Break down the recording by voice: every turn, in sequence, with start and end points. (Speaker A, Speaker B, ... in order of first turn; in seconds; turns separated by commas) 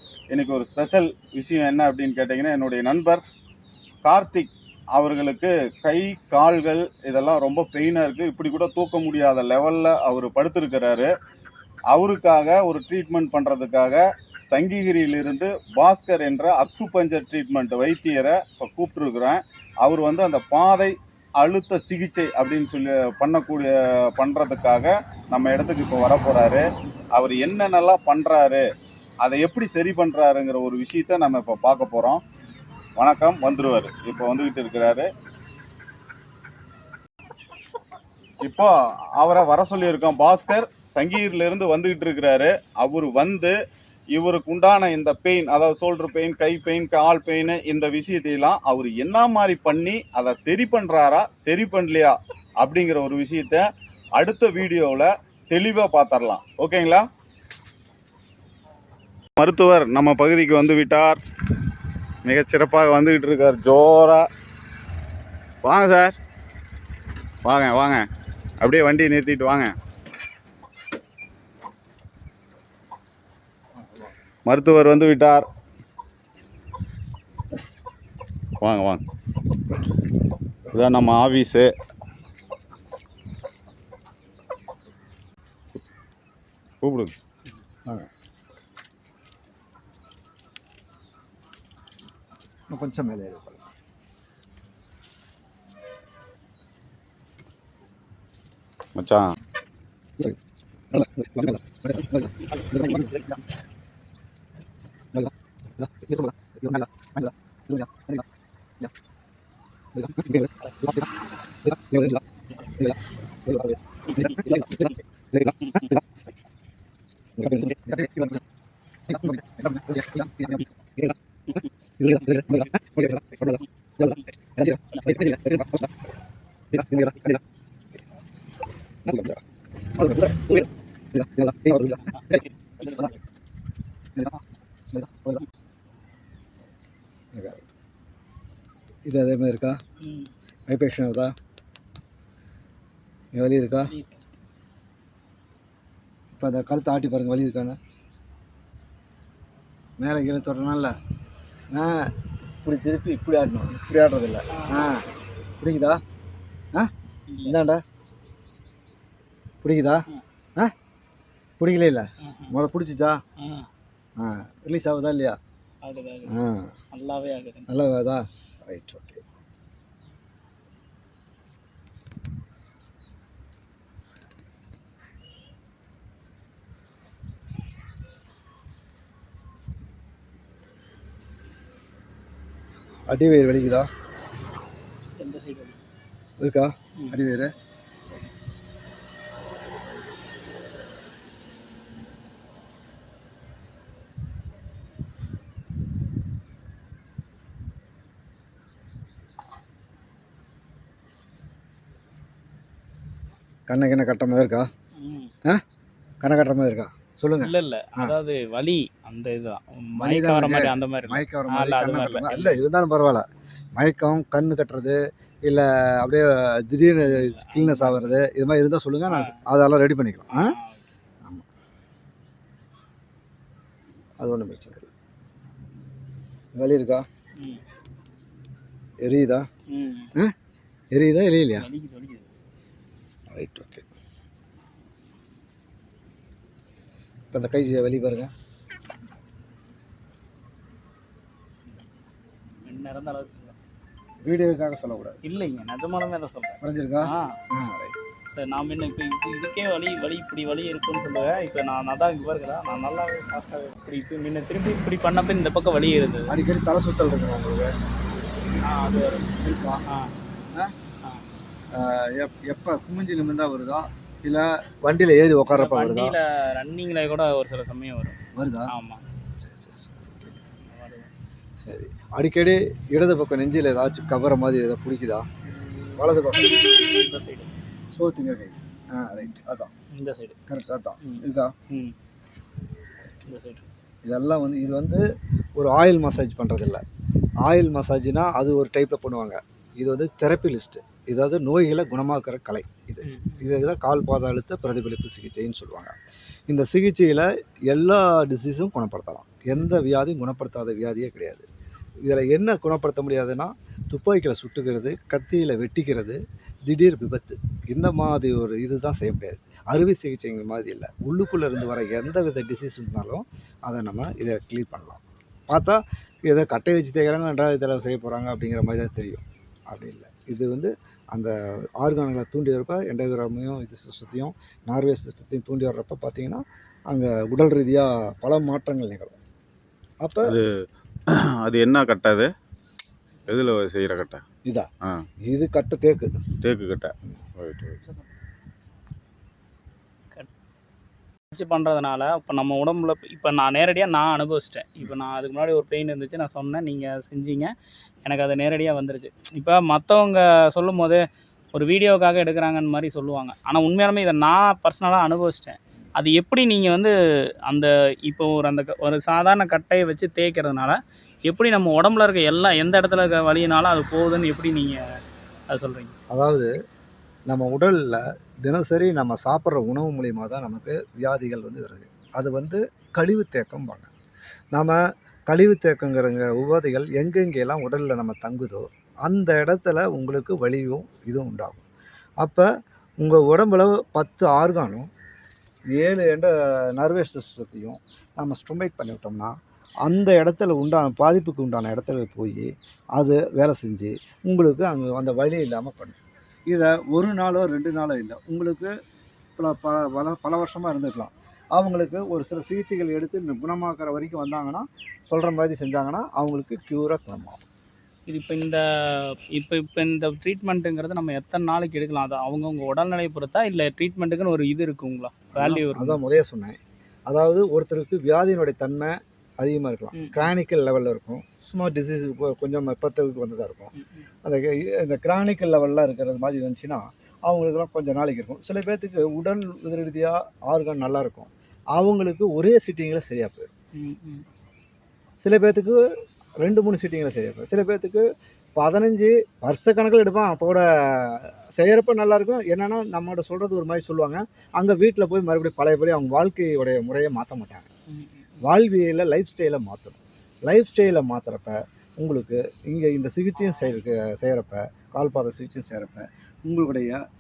Speaker A: 0.3-3.2, Speaker A: 4.0-11.1, Speaker A: 11.9-28.6, Speaker A: 29.2-32.2, Speaker A: 33.0-35.1, Speaker A: 38.4-43.5, Speaker A: 44.1-53.6, Speaker A: 54.2-57.0, Speaker A: 59.4-61.2, Speaker A: 62.2-64.2, Speaker A: 65.6-66.2, Speaker A: 67.4-68.0, Speaker A: 68.6-69.7, Speaker B: 73.8-74.1, Speaker A: 74.5-75.5, Speaker A: 78.6-79.0, Speaker A: 80.7-81.7, Speaker A: 86.8-87.1, Speaker B: 92.7-93.6, Speaker A: 99.0-99.2, Speaker B: 100.9-103.3, Speaker C: 102.6-103.0, Speaker B: 105.1-108.2, Speaker B: 109.9-111.1, Speaker C: 110.6-110.9, Speaker B: 111.6-112.2, Speaker B: 112.8-116.0, Speaker C: 114.1-114.9, Speaker B: 117.4-118.4, Speaker B: 119.1-125.9, Speaker B: 126.7-127.4, Speaker B: 129.0-129.4, Speaker B: 129.9-133.1, Speaker C: 132.1-133.1, Speaker B: 134.1-134.4, Speaker B: 134.9-135.4, Speaker B: 137.3-137.7, Speaker B: 139.1-139.8, Speaker C: 140.0-140.3, Speaker B: 140.7-141.3, Speaker B: 143.3-143.9, Speaker C: 143.9-144.2, Speaker B: 146.3-147.8, Speaker B: 150.0-150.9, Speaker B: 151.7-152.1, Speaker B: 152.6-155.1, Speaker C: 154.5-154.9, Speaker B: 155.6-156.0, Speaker C: 157.3-157.6, Speaker B: 157.4-157.8, Speaker B: 159.6-160.0, Speaker B: 161.6-163.2, Speaker C: 162.2-162.6, Speaker C: 163.4-163.7, Speaker B: 164.2-165.4, Speaker C: 165.8-166.3, Speaker B: 166.3-166.8, Speaker C: 166.9-167.7, Speaker B: 167.7-169.2, Speaker B: 183.1-183.9, Speaker C: 185.2-185.8, Speaker B: 186.4-187.5, Speaker B: 203.7-204.7, Speaker C: 205.0-205.3, Speaker B: 206.2-208.2, Speaker C: 207.4-212.6, Speaker B: 209.9-220.5, Speaker C: 217.0-218.2, Speaker C: 219.1-219.3, Speaker C: 220.3-220.8, Speaker B: 224.2-224.9, Speaker B: 226.5-227.1, Speaker B: 229.0-229.5, Speaker C: 229.7-230.1, Speaker B: 230.9-231.7, Speaker C: 231.6-232.3, Speaker B: 233.3-233.8, Speaker B: 237.3-238.3, Speaker C: 242.6-243.5, Speaker B: 244.2-245.2, Speaker C: 245.2-247.4, Speaker B: 246.6-247.9, Speaker C: 248.3-256.3, Speaker B: 256.3-257.7, Speaker C: 258.6-259.3, Speaker B: 259.4-259.8, Speaker C: 259.9-260.1, Speaker B: 261.7-266.1, Speaker C: 265.5-268.2, Speaker B: 268.3-268.7, Speaker C: 268.7-269.0, Speaker B: 269.4-270.4, Speaker C: 270.6-271.1, Speaker B: 271.6-275.2, Speaker B: 276.0-276.6, Speaker C: 276.3-277.5, Speaker B: 277.9-279.7, Speaker C: 279.9-280.4, Speaker B: 280.5-281.5, Speaker C: 281.0-281.9, Speaker C: 283.2-283.6, Speaker B: 284.0-285.0, Speaker B: 285.6-286.8, Speaker B: 287.4-295.9, Speaker C: 293.0-293.5, Speaker B: 296.5-301.4, Speaker B: 302.0-329.1, Speaker B: 330.0-330.4, Speaker A: 330.2-330.5, Speaker A: 331.1-332.3, Speaker A: 333.3-334.2, Speaker B: 335.2-336.1, Speaker A: 336.4-337.8, Speaker C: 341.3-347.5, Speaker C: 348.0-351.0, Speaker C: 351.5-356.9, Speaker C: 357.5-364.8, Speaker C: 365.5-365.9, Speaker B: 366.1-366.5, Speaker B: 367.3-373.9, Speaker B: 374.5-381.6, Speaker B: 382.2-382.5, Speaker B: 383.0-384.9, Speaker B: 385.7-389.3, Speaker B: 389.9-396.0, Speaker B: 396.5-398.7, Speaker B: 399.4-407.4, Speaker C: 408.1-416.0, Speaker B: 415.3-433.5, Speaker C: 419.9-420.3, Speaker C: 423.7-424.1, Speaker C: 433.8-434.2, Speaker B: 435.2-435.8, Speaker B: 436.4-438.0, Speaker B: 438.6-447.7, Speaker C: 447.9-448.4, Speaker B: 448.4-457.0